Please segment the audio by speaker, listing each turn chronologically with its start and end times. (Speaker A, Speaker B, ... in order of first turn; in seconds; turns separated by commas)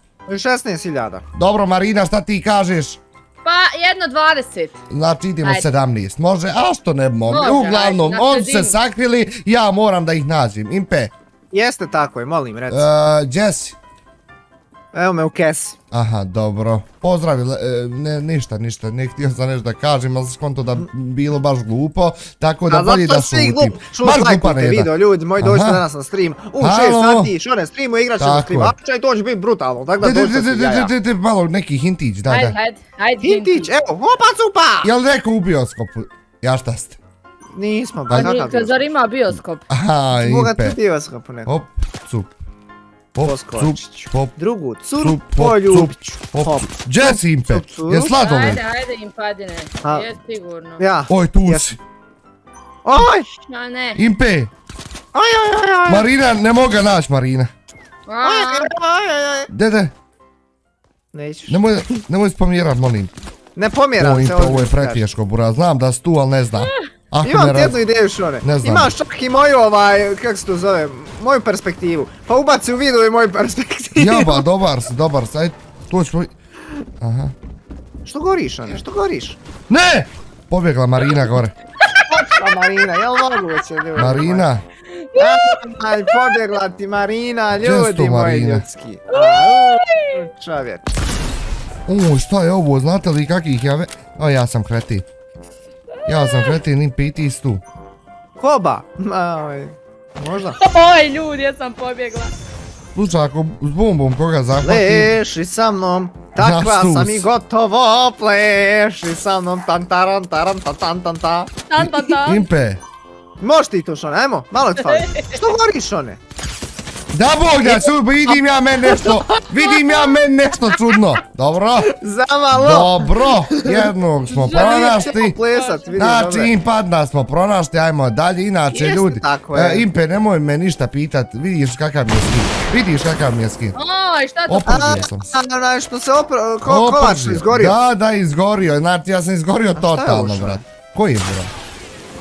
Speaker A: 0.3-1.2, Speaker B: 1.4-3.0, Speaker C: 3.5-4.8, Speaker B: 4.9-11.1, Speaker C: 5.4-5.7, Speaker C: 7.3-8.8, Speaker A: 11.5-12.8, Speaker B: 12.7-13.8, Speaker A: 14.9-15.8, Speaker B: 15.9-25.8, Speaker A: 22.7-30.9, Speaker B: 26.6-27.3, Speaker B: 28.2-28.7, Speaker B: 30.0-32.6, Speaker C: 32.3-33.7, Speaker A: 33.2-34.9, Speaker B: 34.8-37.0, Speaker A: 37.5-38.8, Speaker B: 38.1-38.4, Speaker C: 38.1-39.7, Speaker B: 39.7-40.8, Speaker A: 40.1-41.5, Speaker B: 41.5-42.4, Speaker B: 43.1-44.4, Speaker A: 43.2-48.1, Speaker B: 45.0-48.6, Speaker C: 48.2-50.8, Speaker A: 50.8-51.7, Speaker B: 51.1-51.8, Speaker A: 52.9-53.3, Speaker C: 53.5-54.0, Speaker B: 54.0-54.5, Speaker A: 55.1-56.1, Speaker B: 55.9-57.5, Speaker C: 58.1-58.7, Speaker A: 58.2-59.5, Speaker B: 59.5-59.9, Speaker A: 61.1-61.9, Speaker B: 61.5-63.1, Speaker A: 63.6-65.0, Speaker B: 64.0-67.8, Speaker A: 67.2-74.5, Speaker B: 68.4-68.9, Speaker B: 74.0-76.3, Speaker B: 77.0-77.3, Speaker A: 78.0-79.4, Speaker B: 79.7-81.5, Speaker C: 81.9-83.4, Speaker A: 82.1-84.5, Speaker B: 84.0-84.6, Speaker C: 84.9-86.4, Speaker A: 85.2-90.9, Speaker B: 87.5-88.7, Speaker C: 89.1-90.2, Speaker B: 91.9-95.1, Speaker B: 96.1-97.6, Speaker C: 96.1-96.6, Speaker A: 98.4-100.6, Speaker C: 100.5-102.3, Speaker B: 103.0-105.2, Speaker A: 104.6-111.5, Speaker B: 106.4-107.3, Speaker C: 111.7-112.5, Speaker B: 111.8-112.8, Speaker A: 113.4-116.2, Speaker C: 114.8-115.3, Speaker B: 117.1-121.9, Speaker A: 117.6-119.6, Speaker C: 119.7-120.2, Speaker A: 121.8-123.9, Speaker B: 122.5-125.4, Speaker C: 124.3-126.0, Speaker A: 124.4-126.5, Speaker B: 126.0-133.8, Speaker A: 128.7-129.9, Speaker C: 133.8-135.0, Speaker B: 134.5-135.3, Speaker A: 134.7-137.8, Speaker B: 136.7-141.5, Speaker A: 139.8-140.6